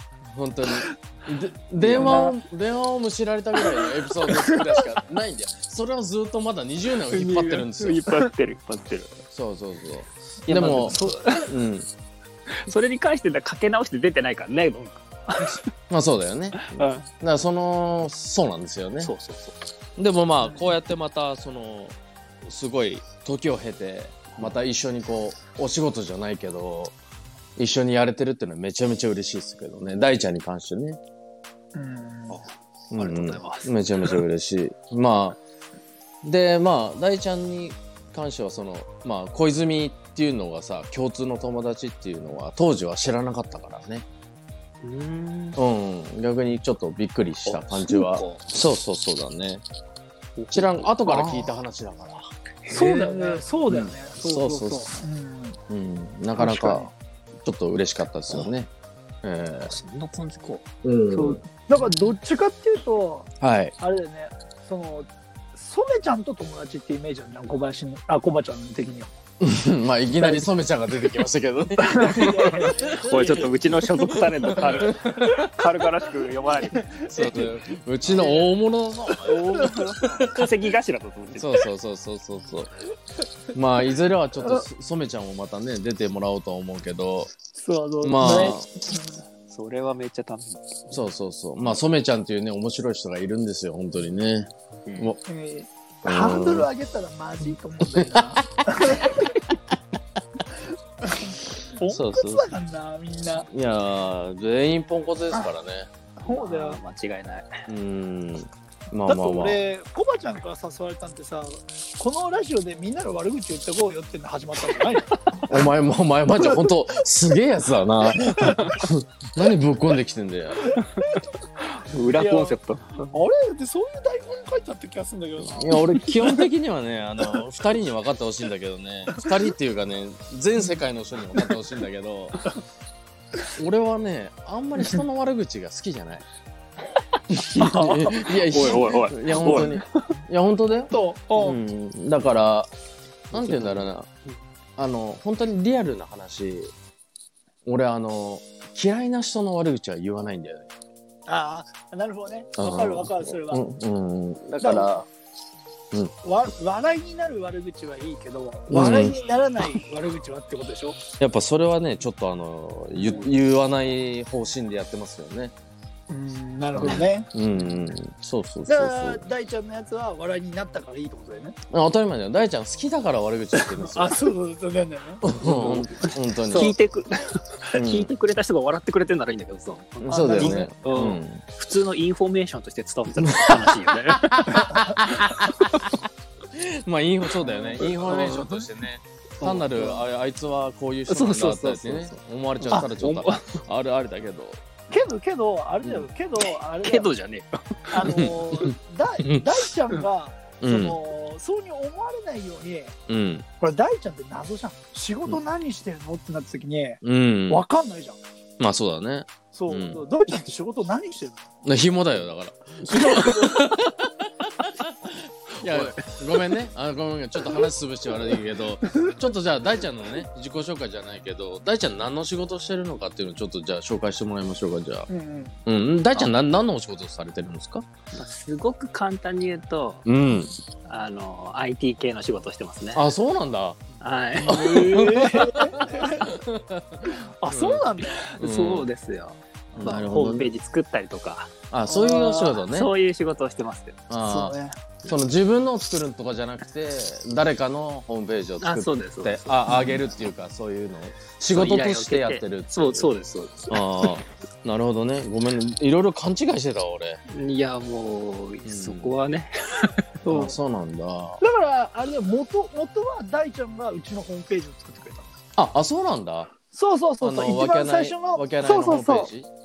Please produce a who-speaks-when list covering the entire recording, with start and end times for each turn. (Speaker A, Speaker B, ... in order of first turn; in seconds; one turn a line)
Speaker A: 0.3-8.0
Speaker B: 1.8-2.4
Speaker C: 1.9-2.2
Speaker B: 4.3-4.8
Speaker C: 7.1-9.1
Speaker A: 9.3-11.9
Speaker C: 10.5-11.5
Speaker C: 12.6-15.6
Speaker A: 15.9-19.1
Speaker C: 16.6-17.1
Speaker C: 19.0-19.6
Speaker A: 20.0-26.9
Speaker A: 27.6-31.0
Speaker B: 31.8-32.4
Speaker A: 32.9-35.4
Speaker C: 32.9-34.1
Speaker A: 36.2-44.1
Speaker C: 44.8-45.6
Speaker A: 45.6-49.6
Speaker C: 47.5-48.5
Speaker C: 50.4-51.5
Speaker A: 50.5-53.1
Speaker C: 52.7-53.4
Speaker B: 52.7-55.6
Speaker A: 53.7-54.9
Speaker A: 55.7-56.9
Speaker B: 56.4-56.9
Speaker A: 57.4-58.7
Speaker A: 59.2-59.7
Speaker C: 59.7-60.7
Speaker A: 60.8-61.4
Speaker B: 61.1-69.1
Speaker A: 63.4-63.8
Speaker A: 69.4-75.5
Speaker B: 71.8-73.6
Speaker C: 72.9-76.9
Speaker B: 74.8-75.4
Speaker B: 76.8-77.5
Speaker A: 77.1-80.5
Speaker B: 78.0-78.5
Speaker C: 79.2-81.7
Speaker B: 79.3-79.8
Speaker A: 81.4-82.7
Speaker A: 83.5-87.3
Speaker B: 87.5-89.2
Speaker A: 88.0-88.7
Speaker C: 89.5-91.0
Speaker A: 90.9-95.2
Speaker C: 94.9-95.1
Speaker B: 95.3-99.4
Speaker A: 96.0-96.7
Speaker A: 98.0-99.2
Speaker B: 101.0-103.5
Speaker A: 101.9-102.5
Speaker A: 103.5-105.9
Speaker B: 106.2-106.8
Speaker C: 106.3-107.7
Speaker A: 107.7-109.6
Speaker B: 109.1-115.5
Speaker A: 115.5-120.8
Speaker B: 118.4-118.7
Speaker B: 120.7-121.3
Speaker C: 121.9-123.1
Speaker B: 122.1-126.5
Speaker A: 125.5-132.5
Speaker A: 133.6-136.2
Speaker A: 137.3-142.7
Speaker B: 137.5-138.2
Speaker C: 138.2-140.1
Speaker B: 140.9-141.6
Speaker A: 143.3-144.1
Speaker C: 143.3-144.3
Speaker A: 144.8-146.7
Speaker A: 147.7-150.7
Speaker B: 151.3-153.6
Speaker A: 152.6-155.1
Speaker B: 154.6-154.9
Speaker B: 156.2-161.0
Speaker A: 158.7-159.2
Speaker A: 161.2-165.5
Speaker B: 163.0-163.3
Speaker B: 166.1-167.3
Speaker A: 166.8-169.2
Speaker B: 168.7-171.6
Speaker A: 171.7-174.2
Speaker B: 173.6-176.1
Speaker A: 175.2-176.8
Speaker C: 175.4-184.8
Speaker A: 177.7-178.1
Speaker A: 180.0-181.4
Speaker B: 180.1-180.7
Speaker A: 183.2-186.0
Speaker A: 186.5-194.6
Speaker B: 187.5-187.9
Speaker C: 187.8-188.7
Speaker C: 189.4-190.1
Speaker C: 191.1-193.6
Speaker B: 194.9-197.1
Speaker C: 196.8-198.0
Speaker B: 197.9-203.0
Speaker A: 198.0-199.5
Speaker A: 200.6-201.0
Speaker A: 203.1-203.5
Speaker B: 203.6-208.2
Speaker A: 207.0-207.6
Speaker A: 208.6-210.0
Speaker B: 209.5-211.5
Speaker A: 211.7-225.1
Speaker B: 212.9-213.6
Speaker C: 215.6-216.2
Speaker B: 218.9-219.1
Speaker B: 225.1-225.6
Speaker A: 225.7-227.9
Speaker C: 228.1-230.1
Speaker A: 230.1-230.5
Speaker C: 230.9-233.1
Speaker A: 232.9-233.8
Speaker C: 234.0-235.1
Speaker B: 234.4-236.3
Speaker A: 234.5-237.8
Speaker B: 237.1-238.3
Speaker C: 238.2-241.5
Speaker A: 238.4-238.9
Speaker A: 239.7-240.5
Speaker A: 241.7-242.9
Speaker B: 241.9-242.6
Speaker C: 242.6-244.0
Speaker A: 244.1-253.1
Speaker B: 244.2-244.8
Speaker C: 248.6-249.9
Speaker B: 249.7-250.0
Speaker C: 251.5-254.1
Speaker A: 253.7-257.2
Speaker C: 257.3-260.0
Speaker A: 258.7-259.2
Speaker B: 260.2-260.5
Speaker A: 260.3-261.4
Speaker B: 261.4-265.3
Speaker A: 265.6-266.5
Speaker B: 266.7-269.3
Speaker A: 267.2-269.5